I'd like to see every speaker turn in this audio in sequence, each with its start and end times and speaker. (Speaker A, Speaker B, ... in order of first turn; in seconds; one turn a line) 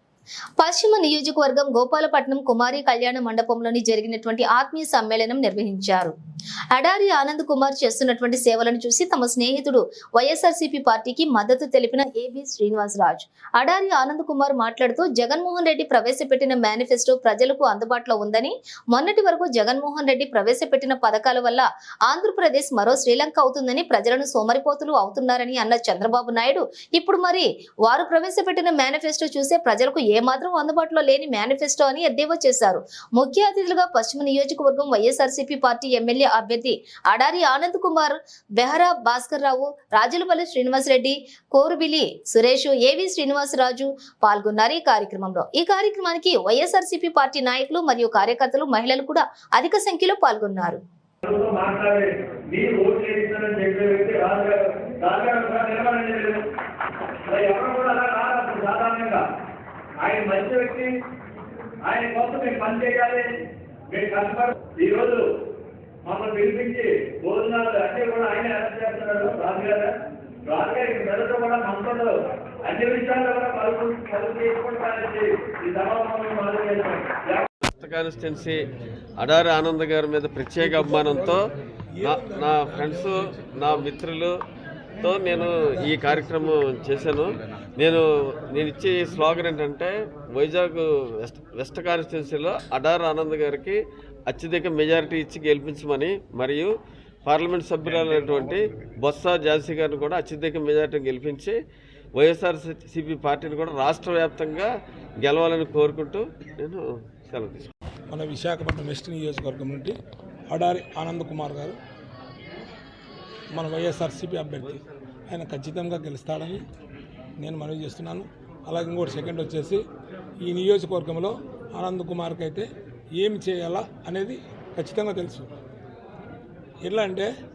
Speaker A: 0.6-6.2
Speaker A: 6.7-50.8
Speaker B: 51.2-56.4
Speaker B: 57.3-59.2
Speaker B: 60.0-60.9
Speaker B: 61.8-63.3
Speaker B: 63.9-65.2
Speaker B: 66.0-69.9
Speaker B: 70.5-77.5
Speaker C: 77.7-78.6
Speaker C: 79.2-81.5
Speaker D: 80.6-81.3
Speaker D: 82.0-83.1
Speaker C: 82.0-84.4
Speaker C: 85.0-96.7
Speaker C: 97.3-101.6
Speaker C: 102.2-104.7
Speaker C: 105.2-107.7
Speaker D: 108.1-110.0
Speaker D: 110.5-111.8
Speaker D: 113.6-116.6
Speaker D: 117.4-119.8
Speaker D: 120.4-125.5
Speaker D: 126.8-127.3